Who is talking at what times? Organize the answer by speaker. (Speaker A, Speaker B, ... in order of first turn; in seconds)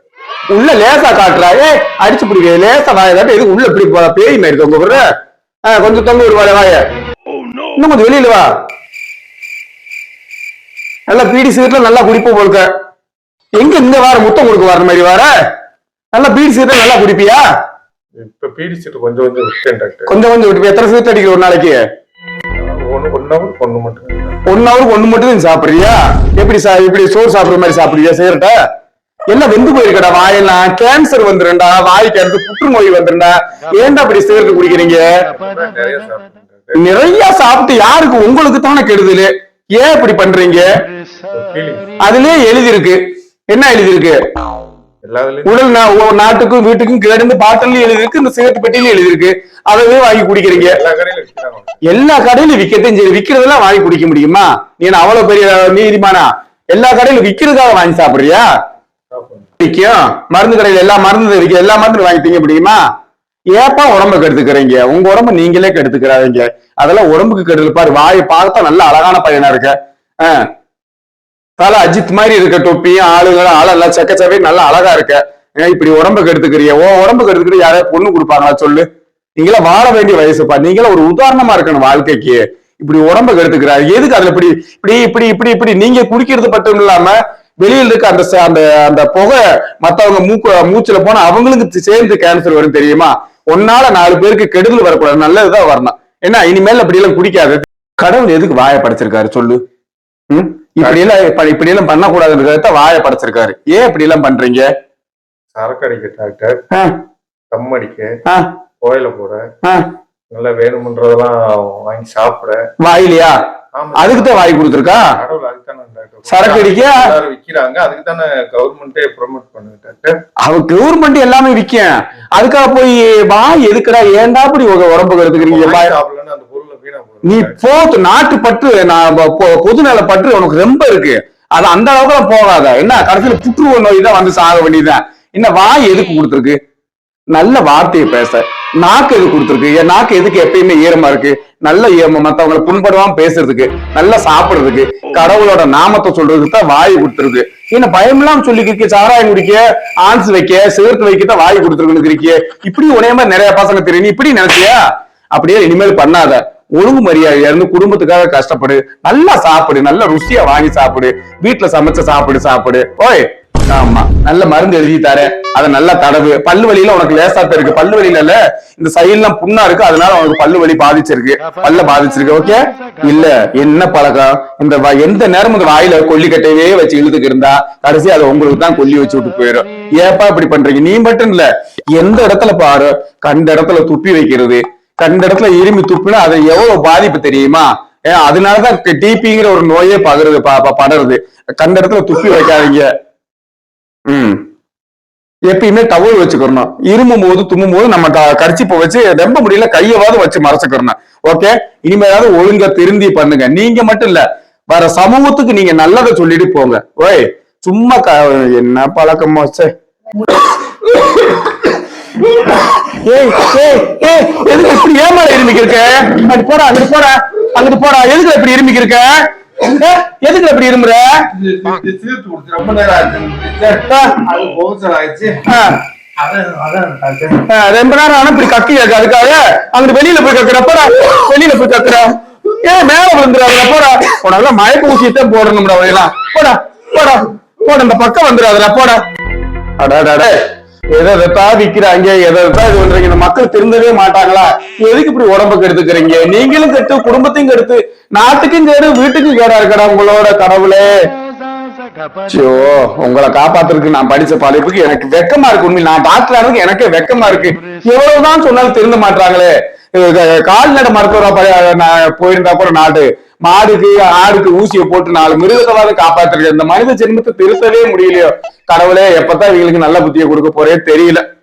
Speaker A: 0.5-5.0, 5.7-6.8, 7.8-8.5, 11.1-12.7, 13.6-15.3, 16.1-17.4, 20.1-21.8, 24.5-28.5, 29.3-35.1, 36.8-40.7, 42.0-44.2, 45.5-50.8, 51.9-58.4, 59.6-62.8, 63.5-70.4, 71.6-78.8, 79.4-99.6, 100.3-104.7, 112.8-113.3, 114.0-115.0, 116.3-117.0, 120.4-125.9, 127.3-136.6, 137.3-154.8, 155.3-192.9, 194.1-194.4, 195.5-209.7, 210.8-211.5, 212.7-221.1, 223.9-224.2, 225.5-225.8, 227.5-232.1, 232.6-239.0, 239.8-240.4, 240.9-250.9, 252.3-271.2
Speaker B: 18.2-20.1, 22.9-24.4, 35.3-36.9, 41.3-42.0, 45.0-45.6, 50.5-51.8, 59.1-59.5, 105.5-106.5, 107.5-108.1, 108.8-109.4, 110.3-112.6, 113.7-114.5, 115.1-120.1, 125.4-127.5, 221.4-225.4, 226.2-227.4